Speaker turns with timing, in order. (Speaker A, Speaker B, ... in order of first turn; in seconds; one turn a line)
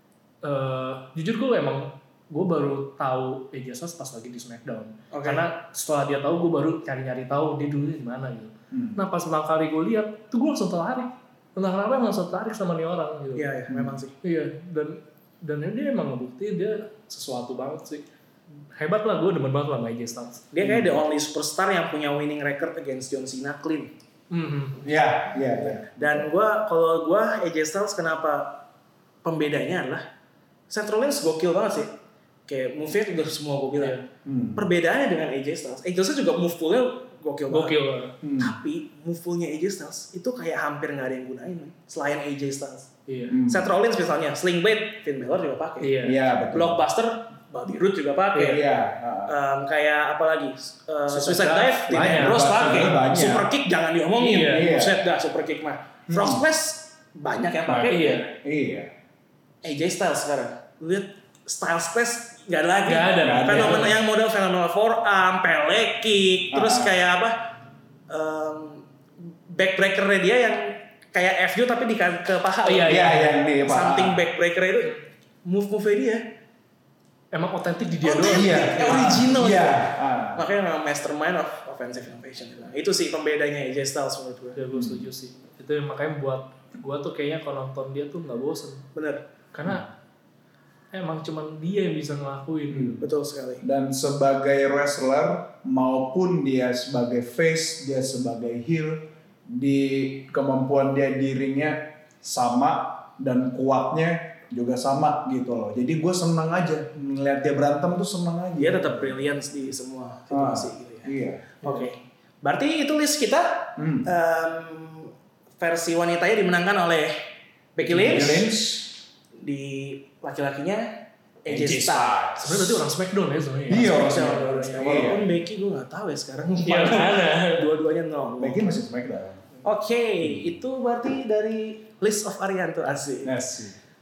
Speaker A: 0.4-13.5
Speaker B: 5.1-5.4
Speaker C: 8.7-9.0
Speaker B: 13.4-14.2
Speaker C: 13.7-14.0
Speaker A: 14.2-18.1
Speaker A: 18.7-20.5
Speaker B: 20.5-23.9
Speaker C: 20.6-21.0
Speaker A: 24.3-24.9
Speaker C: 24.8-26.3
Speaker B: 25.6-28.6
Speaker B: 29.2-30.0
Speaker B: 30.7-31.9
Speaker B: 32.5-34.0
Speaker A: 33.8-34.0
Speaker C: 34.2-34.7
Speaker B: 34.5-37.8
Speaker A: 37.5-38.1
Speaker C: 38.2-38.6
Speaker B: 38.4-42.9
Speaker A: 43.1-43.4
Speaker C: 43.3-43.7
Speaker B: 43.5-46.0
Speaker A: 45.8-46.2
Speaker C: 46.0-46.8
Speaker B: 46.5-48.7
Speaker C: 48.4-49.4
Speaker B: 49.3-58.3
Speaker A: 51.1-53.0
Speaker C: 51.9-53.5
Speaker A: 54.2-54.7
Speaker C: 54.5-55.0
Speaker C: 56.1-56.4
Speaker C: 57.7-58.9
Speaker A: 57.9-58.3
Speaker B: 59.6-67.4
Speaker A: 62.9-64.0
Speaker C: 63.2-63.9
Speaker C: 66.5-67.0
Speaker B: 68.1-68.8
Speaker B: 69.5-76.2
Speaker A: 72.6-73.3
Speaker C: 72.9-74.3
Speaker A: 77.3-79.2
Speaker B: 78.0-84.6
Speaker C: 78.3-80.4
Speaker A: 84.6-88.9
Speaker C: 84.7-85.1
Speaker B: 89.0-89.2
Speaker A: 89.5-89.9
Speaker A: 90.9-93.0
Speaker C: 92.7-93.0
Speaker B: 93.0-93.6
Speaker C: 93.6-109.3
Speaker B: 108.6-117.2
Speaker C: 110.3-111.9
Speaker C: 113.8-114.1
Speaker B: 117.8-118.5
Speaker C: 117.8-119.0
Speaker B: 119.4-120.9
Speaker B: 121.5-122.7
Speaker C: 121.5-122.7
Speaker A: 122.4-124.0
Speaker C: 123.7-125.3
Speaker B: 123.7-128.8
Speaker A: 126.6-127.7
Speaker C: 128.4-129.5
Speaker B: 129.6-133.4
Speaker C: 130.2-130.5
Speaker C: 133.2-133.8